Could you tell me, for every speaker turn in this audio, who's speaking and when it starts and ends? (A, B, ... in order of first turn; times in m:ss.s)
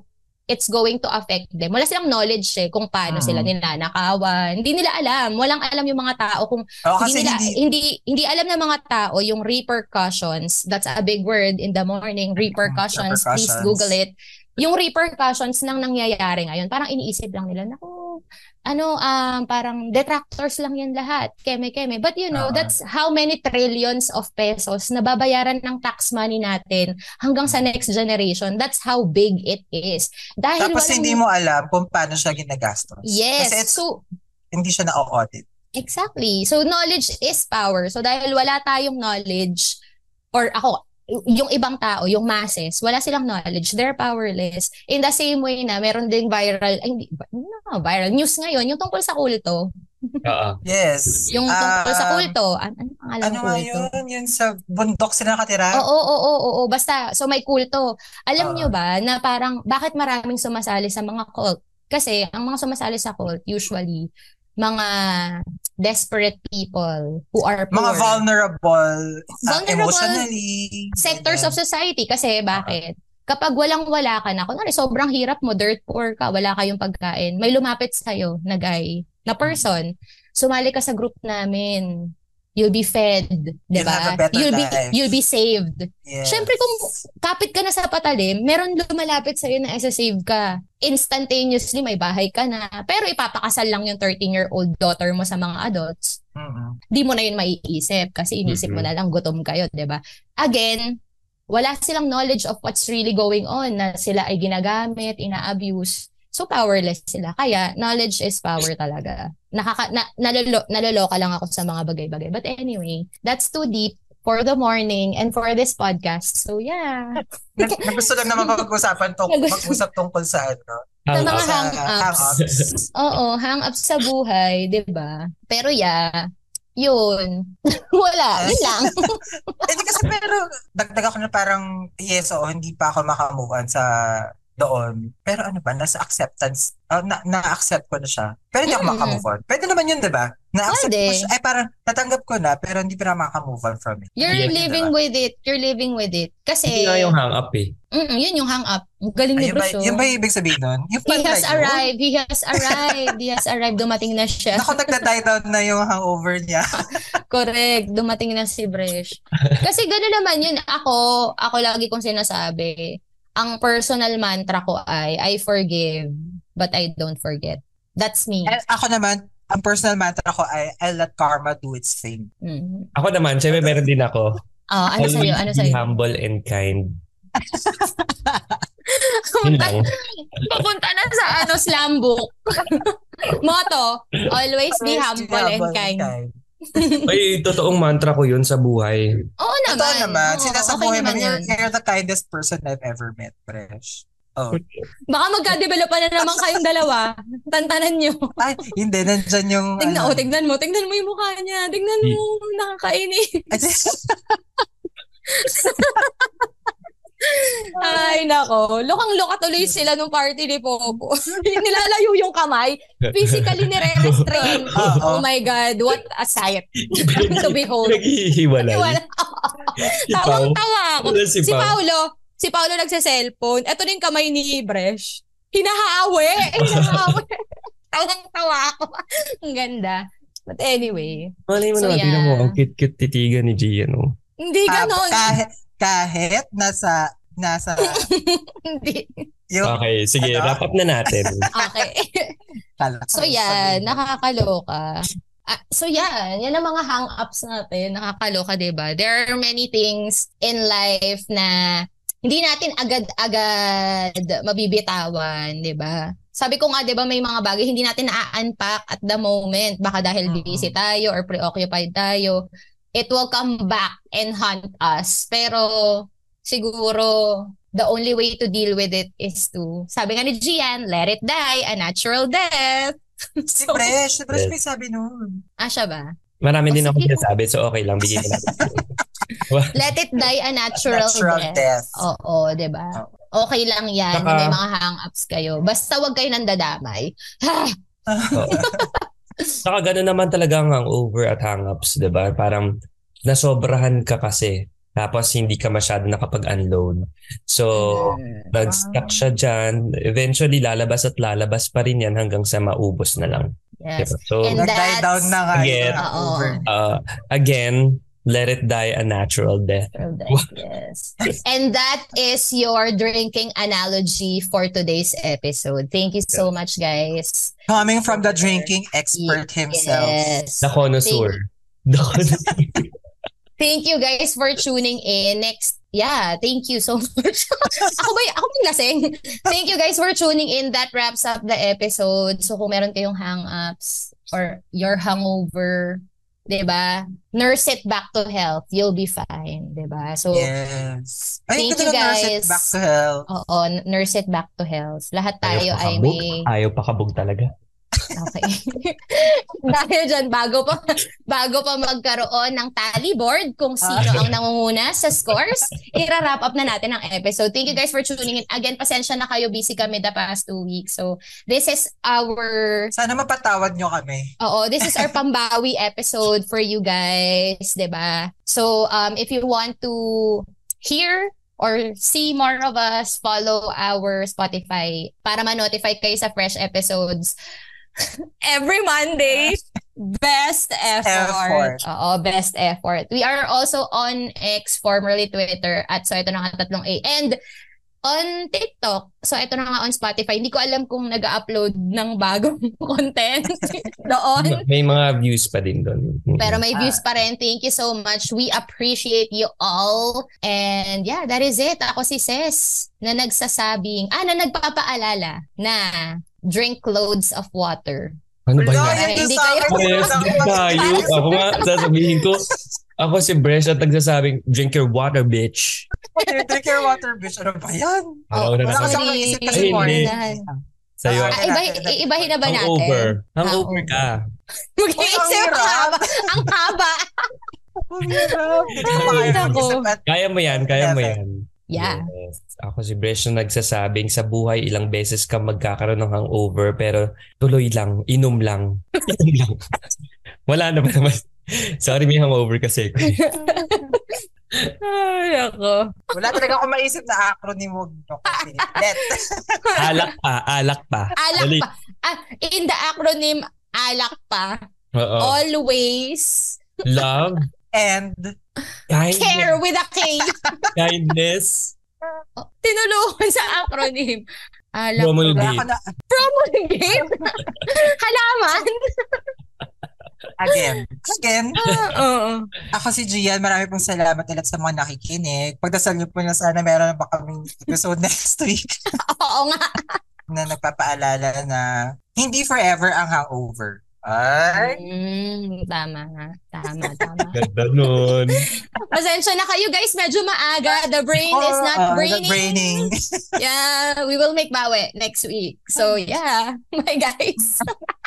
0:00.5-0:31.2 A
0:03.1-0:03.5 B
0:06.9-0:07.6 B
0:12.5-0:13.9 B
0:22.3-0:22.7 B
0:30.6-0:33.8 B
0:33.0-0:34.0 A
0:34.5-0:35.4 B
0:35.8-0:39.8 A
0:40.3-0:50.2 A
0:50.2-0:50.6 C
0:50.6-0:52.3 B
0:51.3-0:53.9 A
0:53.2-0:55.8 B
0:55.7-1:04.0 A
0:58.4-0:58.7 B
1:04.6-1:08.2 A
1:07.7-1:11.6 B
1:09.5-1:10.2 A
1:11.0-1:21.9 A
1:22.6-1:36.2 A
1:23.8-1:25.0 B
1:26.0-1:26.5 B
1:36.4-1:36.8 B
1:36.9-1:40.9 A
1:38.5-1:38.9 C
1:41.5-1:57.9 A
1:57.6-2:02.9 B
1:59.3-1:59.8 A
2:01.1-2:01.5 C
2:01.1-2:02.1 A
2:02.4-2:02.7 C
2:02.9-2:06.1 A
2:06.8-2:09.7 A
2:08.4-2:09.1 B
2:09.7-2:24.9 B
2:18.7-2:19.2 A
2:20.7-2:21.3 A
2:24.2-2:27.1 A
2:24.3-2:24.6 C
2:26.7-2:27.7 C
2:27.9-2:30.1 A
2:29.4-2:31.9 B
2:31.1-2:35.0 A
2:32.5-2:33.1 B
2:34.5-2:37.0 B
2:37.3-2:42.8 A
2:43.4-2:48.6 A
2:48.5-2:52.3 B
2:52.4-2:52.9 A
2:53.0-2:54.4 C
2:53.5-2:53.8 B
2:54.7-2:55.8 A
2:55.0-2:56.9 C
2:57.4-2:58.6 B
2:58.9-3:06.1 A
2:59.4-2:59.9 C
3:04.7-3:07.0 B
3:06.7-3:07.1 A
3:07.0-3:09.1 C
3:09.4-3:11.5 A
3:09.7-3:14.6 B
3:14.5-3:14.8 C
3:15.1-3:18.4 A
3:16.2-3:16.6 B
3:18.4-3:20.2 B
3:19.8-3:23.5 A
3:23.5-3:24.4 B
3:25.3-3:26.3 A
3:27.2-3:38.0 A
3:27.8-3:28.2 B
3:33.2-3:35.0 C
3:34.7-3:35.3 B
3:36.9-3:39.0 C
3:38.6-3:52.6 A
3:39.8-3:41.8 C
3:46.6-3:47.2 C
3:51.5-3:54.1 C
3:54.4-3:55.3 A
3:54.7-3:58.1 B
3:57.8-3:59.2 A
3:59.5-4:01.9 B
3:59.6-4:01.5 C
4:01.6-4:02.3 A
4:02.8-4:04.0 B
4:03.1-4:11.5 A
4:12.2-4:22.4 A
4:20.3-4:20.7 B
4:23.0-4:33.9 A
4:33.5-4:35.4 B
4:35.6-4:36.1 A
4:36.4-4:38.9 C
4:36.7-4:37.3 A
4:38.1-4:38.8 B
4:39.4-4:47.7 A
4:39.5-4:39.9 C
4:40.9-4:42.0 B
4:44.1-4:44.6 C
4:48.1-4:48.9 B
4:48.3-4:48.7 C
4:48.5-4:49.6 A
4:49.6-4:52.7 C
4:53.3-5:04.6 C
4:57.7-4:58.5 A
4:58.7-4:59.2 B
5:03.8-5:05.4 A
5:04.5-5:06.6 B
5:05.6-5:06.0 C
5:06.0-5:06.6 A
5:06.7-5:10.5 C
5:09.9-5:21.4 A
5:17.7-5:20.4 B
5:20.6-5:22.9 C
5:23.6-5:40.5 A
5:40.3-5:43.3 B
5:41.6-5:42.7 A
5:43.3-5:46.5 A
5:45.4-5:47.5 C
5:48.2-6:02.9 A
5:53.8-5:54.3 B
5:54.0-5:54.3 C
6:02.9-6:05.1 B
6:04.4-6:17.3 A
6:18.4-6:27.4 A
6:21.0-6:21.8 B
6:28.0-6:34.6 A
6:33.6-6:33.9 B
6:34.4-6:36.6 C
6:36.4-6:48.2 A
6:36.7-6:37.0 B
6:48.5-6:49.2 C
6:48.6-6:51.6 B
6:49.0-6:51.9 A
6:49.7-6:55.9 C
6:56.1-7:02.3 B
6:56.6-6:56.9 A
6:58.3-7:00.1 C
6:58.3-7:00.4 A
7:01.0-7:01.4 C
7:01.4-7:04.1 A
7:02.4-7:04.2 C
7:04.8-7:07.3 A
7:05.0-7:06.5 B
7:07.8-7:11.2 B
7:08.1-7:09.9 A
7:08.8-7:19.7 C
7:11.7-7:12.1 A
7:20.5-7:21.2 C
7:21.8-7:23.2 C
7:23.0-7:24.2 A
7:23.5-7:24.0 B
7:24.8-7:26.5 A
7:26.1-7:29.8 B
7:28.3-7:29.0 A
7:29.6-7:30.1 A
7:29.8-7:31.6 C
7:31.1-7:34.6 A
7:34.9-7:35.4 C
7:35.2-7:36.6 A
7:36.9-7:37.5 C
7:37.7-7:38.3 B
7:38.9-7:39.6 C
7:39.1-7:40.7 A
7:40.7-7:41.7 C
7:42.4-7:45.5 A
7:45.0-7:45.6 C
7:45.3-7:45.9 B
7:46.1-7:49.3 A
7:50.4-7:51.6 B
7:51.6-7:52.5 A
7:51.6-7:52.0 C
7:52.7-7:58.8 B
7:59.1-8:00.0 A
8:00.3-8:04.8 B
8:04.5-8:07.4 A
8:06.8-8:07.1 B
8:07.4-8:08.4 C
8:08.5-8:17.8 A
8:11.3-8:13.0 B